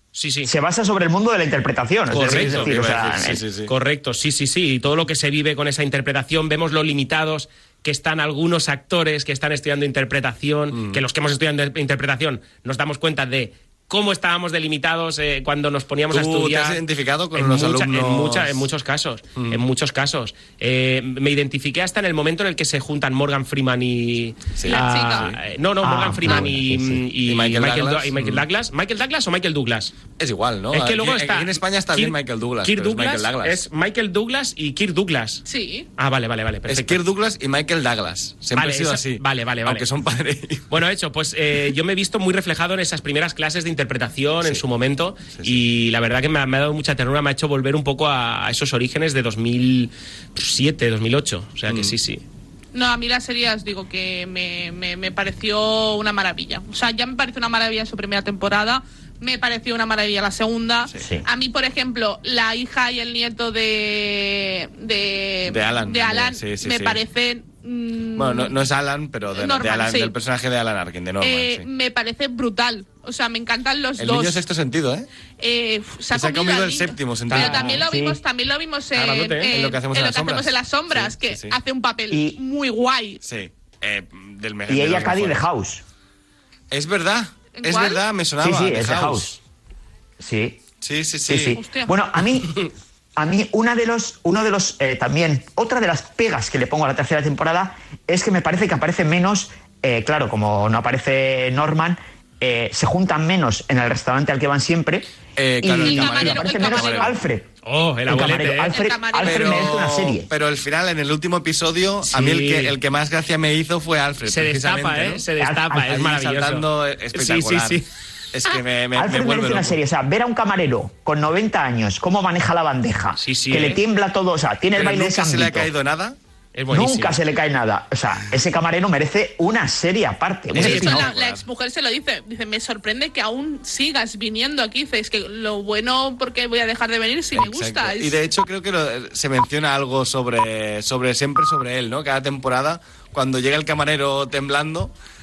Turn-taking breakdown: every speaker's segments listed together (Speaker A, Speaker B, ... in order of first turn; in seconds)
Speaker A: 0.1-0.5, 2.1-2.8, 3.7-16.8, 17.3-29.9, 30.7-35.4, 36.0-37.0, 38.5-39.9, 40.7-52.2, 77.3-77.7, 78.9-79.5, 107.6-108.8, 112.0-112.8, 114.2-117.8, 123.2-123.8, 126.5-127.2, 130.6-131.0
Speaker B: 0.4-3.4, 25.8-27.0, 61.0-61.2, 77.6-78.2, 82.1-82.4, 84.7-85.8, 88.4-89.4, 90.2-90.6, 91.3-92.6, 93.2-107.5, 108.1-110.3, 115.4-116.0, 118.9-125.7, 126.7-131.0
Speaker C: 2.1-3.7, 10.7-11.0, 16.1-18.6, 19.4-19.6, 24.6-25.4, 27.3-28.4, 30.2-33.6, 36.7-40.6, 51.7-52.0, 65.5-67.0, 68.2-71.6, 74.0-75.1, 76.1-77.8, 79.4-81.6, 83.2-85.4, 86.7-89.3, 90.8-91.6, 105.3-107.1, 109.2-115.2, 115.8-117.8, 118.3-119.8, 124.7-126.2, 130.5-131.4, 137.3-144.9
Speaker D: 24.7-25.3, 35.4-35.9, 52.7-68.6, 69.3-70.1, 71.2-74.4, 75.4-83.2, 87.5-88.0, 91.5-91.9, 105.8-107.1, 108.7-109.7, 130.6-138.1